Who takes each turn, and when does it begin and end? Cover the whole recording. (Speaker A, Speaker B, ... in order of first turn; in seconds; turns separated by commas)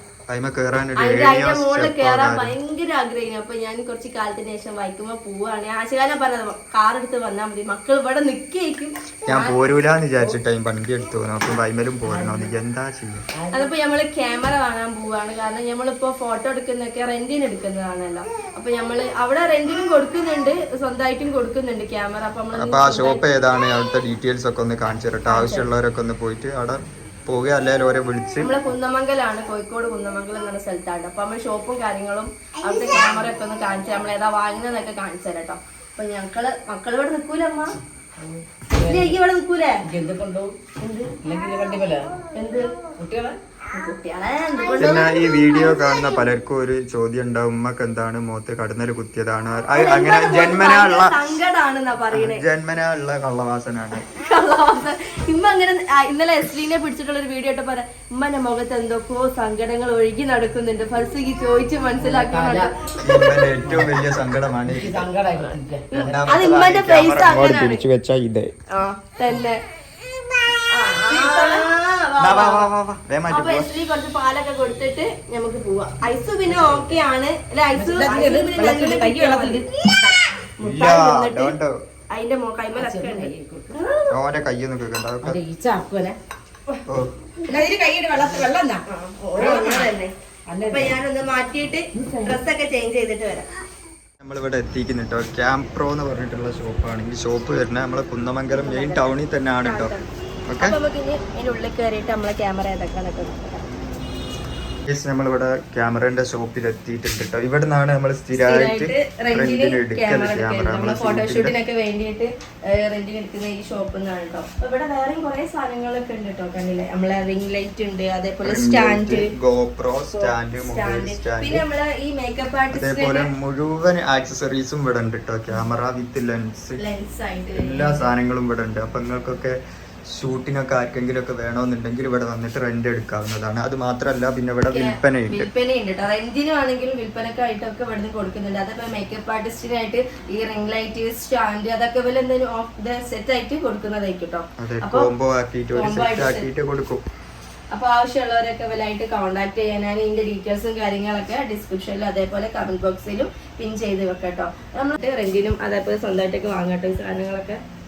Speaker A: 0.3-2.5, Speaker B: 1.0-9.6, Speaker A: 9.3-13.2, Speaker C: 12.0-12.5, Speaker C: 13.3-13.7, Speaker B: 13.5-23.2, Speaker A: 22.6-28.5, Speaker B: 25.3-25.7, Speaker B: 28.4-37.8, Speaker C: 38.2-39.2, Speaker B: 38.8-39.8, Speaker C: 39.8-40.6, Speaker B: 40.8-41.1, Speaker C: 41.2-42.3, Speaker B: 42.3-42.8, Speaker C: 43.0-43.4, Speaker B: 43.7-45.4, Speaker A: 44.8-51.2, Speaker B: 49.7-52.4, Speaker A: 52.1-54.0, Speaker B: 54.0-63.5, Speaker C: 62.0-62.7, Speaker A: 63.0-65.1, Speaker C: 63.6-64.1, Speaker C: 64.7-66.2, Speaker A: 65.9-68.5, Speaker B: 65.9-67.8, Speaker B: 68.7-69.6, Speaker B: 70.7-72.7, Speaker C: 71.0-71.7, Speaker A: 72.2-73.7, Speaker B: 73.3-79.9, Speaker C: 76.5-77.0, Speaker C: 77.8-80.2, Speaker B: 80.6-81.5, Speaker A: 80.6-81.8, Speaker B: 82.1-84.1, Speaker C: 82.8-83.8, Speaker A: 84.1-85.4, Speaker C: 85.2-86.2, Speaker A: 86.9-87.1, Speaker B: 87.5-87.7, Speaker C: 87.5-88.8, Speaker B: 88.3-93.5, Speaker C: 89.4-89.9, Speaker C: 90.5-91.0, Speaker C: 92.0-92.4, Speaker A: 94.2-100.0, Speaker B: 98.5-100.1, Speaker A: 100.5-100.8, Speaker B: 100.6-103.7, Speaker A: 104.9-111.5, Speaker B: 108.3-119.3, Speaker A: 118.4-121.6, Speaker B: 120.1-123.3, Speaker A: 122.7-126.8, Speaker B: 126.8-128.1, Speaker A: 127.5-129.6, Speaker A: 130.1-135.5, Speaker B: 134.7-145.1, Speaker A: 144.6-147.0, Speaker B: 145.8-146.5, Speaker B: 147.7-157.6